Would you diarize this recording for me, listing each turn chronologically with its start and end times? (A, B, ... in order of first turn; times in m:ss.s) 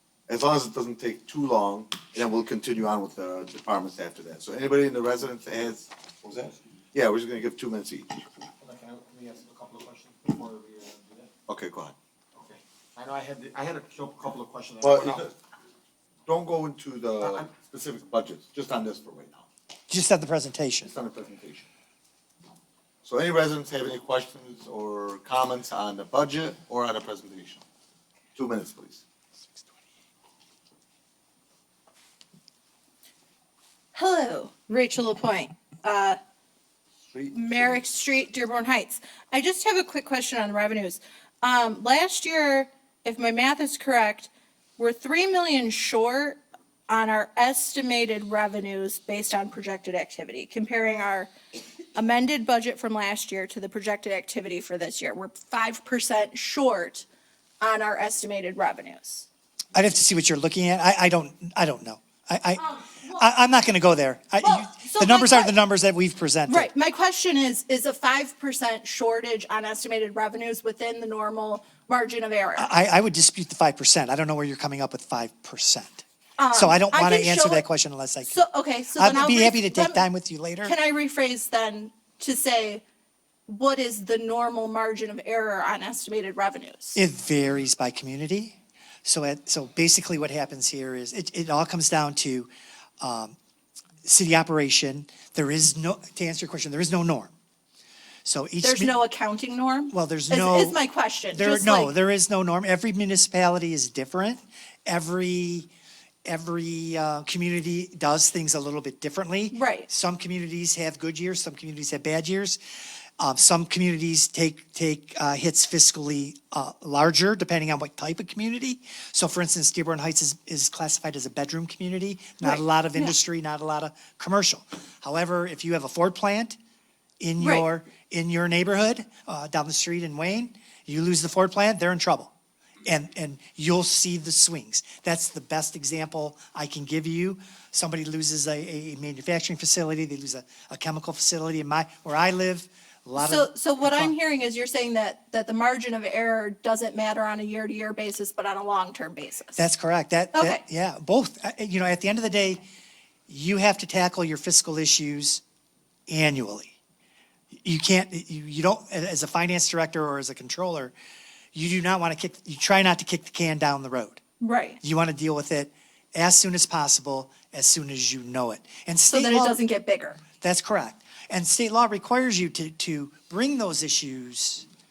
0:00.3-0:08.2 A
0:08.6-0:11.3 B
0:11.5-0:11.9 A
0:12.4-0:15.3 B
0:14.8-0:15.3 A
0:16.3-0:19.4 A
0:17.2-0:17.6 B
0:19.9-0:20.9 C
0:20.8-0:21.6 A
0:23.0-0:27.6 A
0:28.4-0:29.0 A
0:33.9-0:36.2 D
0:37.1-0:37.8 A
0:37.3-0:51.3 D
0:51.9-0:57.0 D
0:57.6-0:59.2 D
0:59.7-1:06.7 C
1:02.8-1:03.3 D
1:04.4-1:05.5 D
1:06.5-1:12.7 D
1:12.6-1:18.4 C
1:16.4-1:17.6 D
1:18.2-1:20.0 D
1:18.9-1:20.7 C
1:20.6-1:22.8 D
1:23.5-1:27.0 D
1:26.9-1:32.5 C
1:33.0-1:33.4 C
1:34.0-1:37.3 C
1:38.2-1:38.9 C
1:38.6-1:41.9 D
1:39.9-1:40.8 C
1:41.3-1:45.7 C
1:46.2-1:52.6 C
1:49.5-1:49.9 D
1:53.2-2:06.6 C
2:02.4-2:03.1 D
2:07.2-2:12.3 C
2:07.4-2:07.6 D
2:12.8-2:24.1 C
2:23.2-2:29.6 D
2:29.6-2:32.6 C
2:30.3-2:30.6 D
2:33.3-2:35.4 C
2:36.1-2:36.7 C
2:37.5-2:40.9 C
2:41.5-2:44.2 C
2:44.4-2:44.8 D
2:44.8-2:49.6 C
2:49.1-2:50.2 D
2:50.4-2:54.6 C